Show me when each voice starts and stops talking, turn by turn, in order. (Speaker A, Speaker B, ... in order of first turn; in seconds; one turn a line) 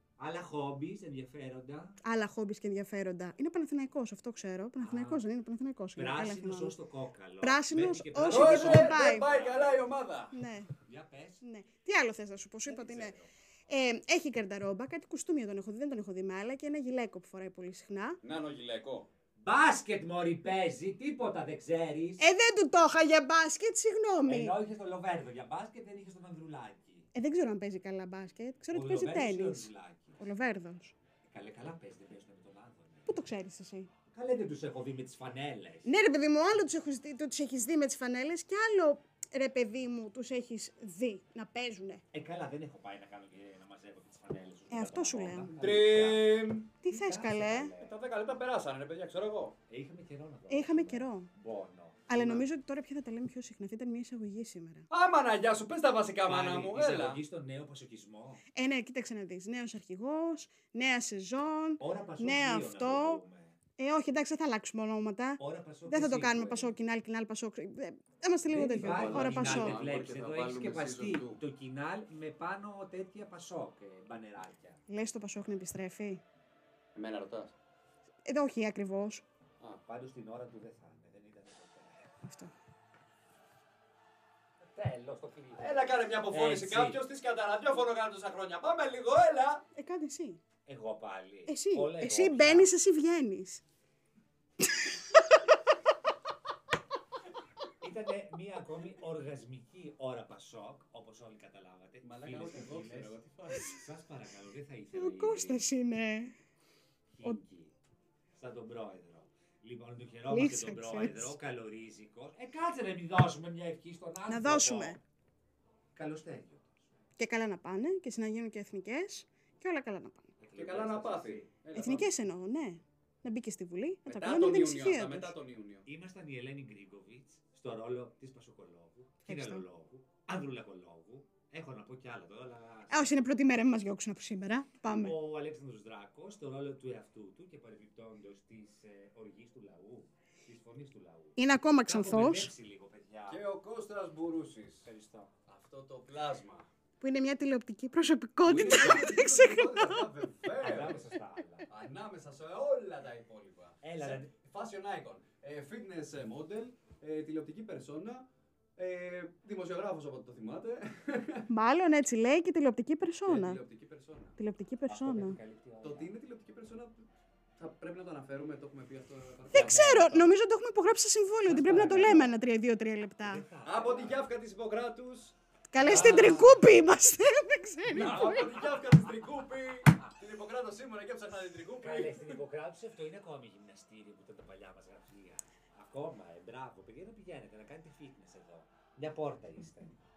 Speaker A: 0.2-2.0
Speaker B: 2.0-6.8
Speaker A: 4.8-5.2
Speaker A: 6.0-9.9
Speaker B: 7.4-9.3
Speaker C: 8.3-10.3
Speaker B: 10.3-10.7
Speaker A: 10.8-11.4
Speaker B: 11.4-18.2
Speaker A: 12.7-13.3
Speaker C: 18.2-19.1
Speaker A: 19.4-22.2
Speaker B: 22.2-24.6
Speaker A: 24.2-27.1
Speaker B: 27.1-30.9
Speaker A: 28.7-30.2
Speaker A: 31.2-33.3
Speaker B: 33.0-33.9
Speaker A: 34.1-35.9
Speaker B: 35.9-42.0
Speaker A: 42.1-48.0
Speaker B: 44.7-45.5
Speaker C: 45.6-46.7
Speaker B: 46.8-47.7
Speaker C: 47.8-49.6
Speaker A: 49.7-52.5
Speaker B: 50.5-51.3
Speaker B: 52.1-54.9
Speaker C: 54.9-57.2
Speaker A: 56.2-58.4
Speaker B: 58.5-63.2
Speaker A: 61.8-63.5
Speaker B: 63.8-69.8
Speaker A: 65.4-66.8
Speaker A: 68.5-74.8
Speaker C: 68.7-71.4
Speaker B: 74.9-76.2
Speaker C: 76.9-77.5
Speaker B: 78.2-79.2
Speaker A: 79.8-82.1
Speaker B: 82.2-82.5
Speaker A: 84.6-87.0
Speaker C: 85.6-89.6
Speaker B: 89.7-90.4
Speaker A: 90.7-92.7
Speaker B: 91.5-93.6
Speaker A: 97.8-105.6
Speaker C: 102.0-103.8
Speaker B: 104.9-106.3
Speaker A: 107.1-107.7
Speaker A: 108.3-115.0
Speaker B: 110.3-111.3
Speaker B: 114.3-115.0
Speaker A: 115.9-116.8
Speaker B: 117.2-120.3
Speaker A: 120.4-121.5
Speaker C: 120.5-122.1
Speaker B: 121.7-125.3
Speaker C: 124.1-125.8
Speaker A: 125.8-133.1
Speaker B: 129.2-129.6
Speaker B: 132.9-135.2
Speaker A: 134.8-143.4
Speaker B: 141.3-142.5
Speaker C: 143.3-144.9
Speaker A: 144.8-145.3
Speaker C: 145.5-146.7
Speaker B: 147.0-150.1
Speaker C: 148.4-151.1
Speaker A: 150.6-151.7
Speaker C: 151.7-158.2
Speaker A: 153.8-154.3
Speaker C: 158.8-161.5
Speaker B: 161.5-163.6
Speaker C: 163.2-164.3
Speaker B: 164.3-165.4
Speaker A: 164.9-166.1
Speaker C: 165.8-170.3
Speaker A: 169.5-170.2
Speaker B: 169.5-173.4
Speaker A: 171.4-172.3
Speaker A: 173.2-174.3
Speaker C: 173.6-176.6
Speaker B: 175.7-178.6
Speaker A: 175.8-176.6
Speaker C: 177.9-182.3
Speaker A: 177.9-178.8
Speaker A: 181.8-190.0